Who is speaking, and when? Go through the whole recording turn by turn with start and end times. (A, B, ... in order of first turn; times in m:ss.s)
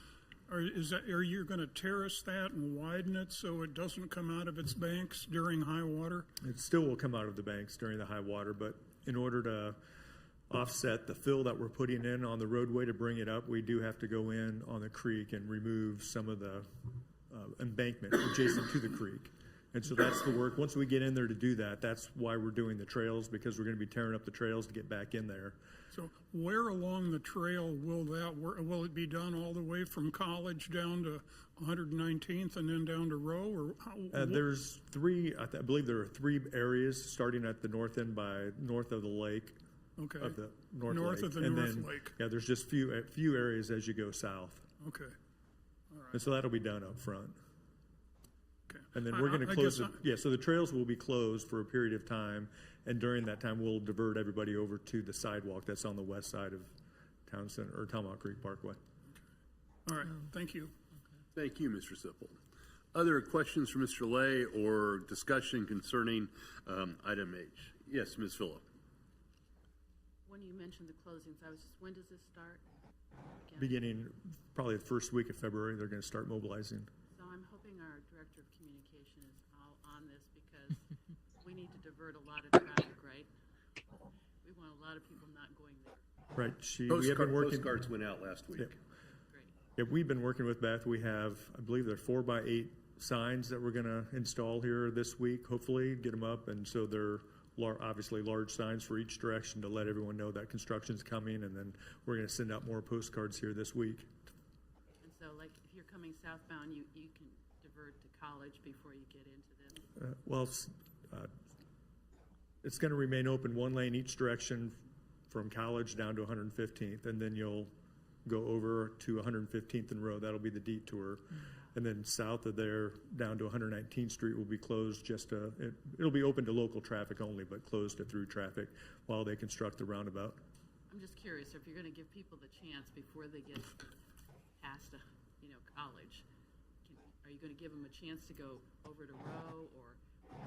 0:00.5-0:06.3 A
0:06.4-0:09.8 B
0:10.5-0:16.7 B
0:17.3-0:25.6 B
0:25.9-0:34.4 A
0:34.1-0:39.6 B
0:40.0-0:42.1 A
0:40.2-0:44.7 B
0:44.8-0:45.2 A
0:45.9-0:46.2 A
0:46.1-0:47.4 B
0:48.7-0:50.0 A
0:48.9-0:56.7 B
0:57.2-0:58.8 B
0:59.8-1:00.7 A
1:01.3-1:02.4 C
1:02.9-1:08.6 C
1:10.2-1:12.6 D
1:13.3-1:13.9 D
1:13.6-1:16.9 B
1:17.1-1:20.8 D
1:21.4-1:23.3 D
1:24.4-1:26.1 D
1:26.3-1:27.7 B
1:26.9-1:28.8 C
1:29.8-1:44.1 B
1:45.0-1:49.8 D
1:50.0-1:51.3 B
1:52.6-1:54.8 B
1:55.3-1:57.7 B
1:58.2-2:10.4 B
2:10.9-2:13.8 D
2:14.6-2:16.2 D
2:16.8-2:20.0 D